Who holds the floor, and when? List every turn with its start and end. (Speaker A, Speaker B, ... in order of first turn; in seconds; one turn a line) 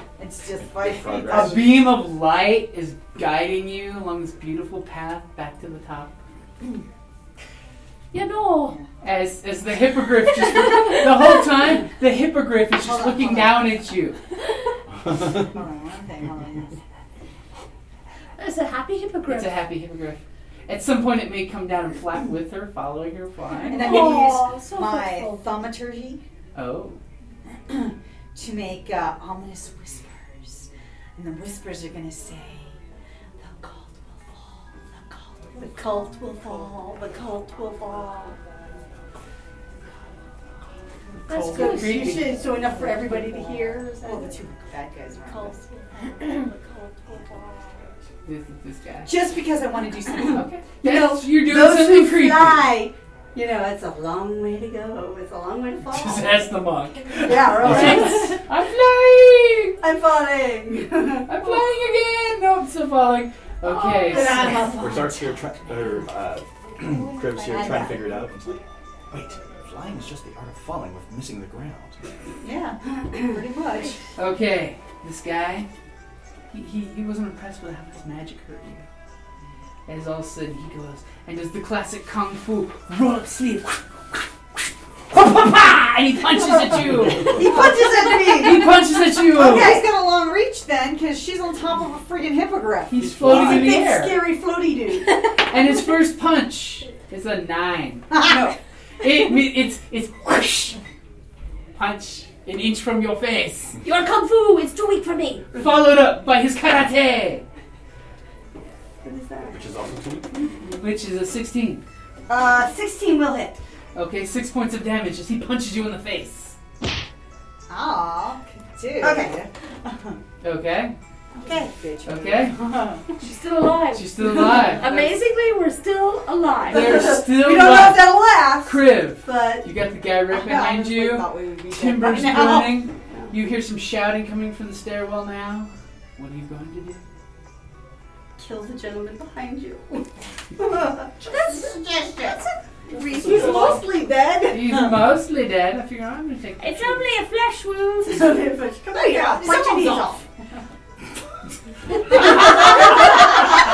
Speaker A: 0.2-1.6
Speaker B: 0.7-1.9
Speaker C: 0.9-6.1
Speaker D: 8.1-8.8
Speaker C: 9.0-14.2
Speaker D: 10.7-11.0
Speaker A: 12.8-13.9
Speaker A: 15.3-16.8
Speaker D: 18.4-19.6
Speaker C: 19.3-24.1
Speaker D: 23.5-25.5
Speaker A: 23.7-26.2
Speaker C: 26.6-27.0
Speaker A: 27.5-32.8
Speaker A: 33.4-35.6
Speaker E: 35.6-38.4
Speaker C: 41.3-42.4
Speaker D: 41.3-42.2
Speaker E: 41.3-44.4
Speaker A: 41.4-45.6
Speaker E: 45.2-47.9
Speaker C: 48.2-49.2
Speaker A: 49.0-50.4
Speaker E: 50.0-56.5
Speaker C: 50.3-52.7
Speaker C: 55.9-59.8
Speaker E: 57.2-58.4
Speaker B: 57.6-58.1
Speaker E: 59.8-61.3
Speaker C: 61.3-64.7
Speaker E: 63.7-64.8
Speaker A: 64.0-65.2
Speaker D: 64.1-64.7
Speaker B: 64.8-72.0
Speaker A: 67.5-68.2
Speaker A: 72.4-74.0
Speaker C: 74.2-75.7
Speaker C: 76.5-78.8
Speaker C: 79.9-84.6
Speaker C: 85.1-89.8
Speaker B: 86.8-87.8
Speaker A: 87.3-93.3
Speaker C: 92.9-94.2
Speaker B: 93.0-93.8
Speaker E: 93.3-95.1
Speaker C: 95.5-98.3
Speaker A: 98.1-98.4
Speaker E: 98.3-98.5
Speaker C: 99.0-100.8
Speaker C: 101.8-103.8
Speaker D: 103.8-105.5
Speaker C: 105.5-107.5
Speaker E: 109.0-109.6
Speaker B: 109.5-110.3
Speaker C: 110.6-111.8
Speaker E: 112.3-113.6
Speaker C: 114.0-116.6
Speaker A: 117.7-120.2
Speaker E: 119.0-119.3
Speaker C: 120.4-121.0
Speaker A: 121.3-123.0
Speaker E: 121.4-121.7
Speaker C: 122.1-122.8
Speaker D: 123.2-127.1
Speaker C: 123.9-125.1
Speaker C: 126.7-137.0
Speaker E: 126.7-129.7
Speaker A: 127.5-128.4
Speaker A: 130.3-132.9
Speaker E: 138.4-141.2
Speaker D: 141.3-141.6
Speaker A: 141.3-142.4
Speaker E: 142.9-144.4
Speaker B: 143.2-143.8
Speaker A: 143.3-145.0
Speaker D: 143.3-143.6
Speaker C: 144.5-147.1
Speaker D: 146.6-148.4
Speaker E: 148.1-150.2
Speaker A: 148.9-150.2
Speaker C: 152.1-153.2
Speaker E: 152.2-152.7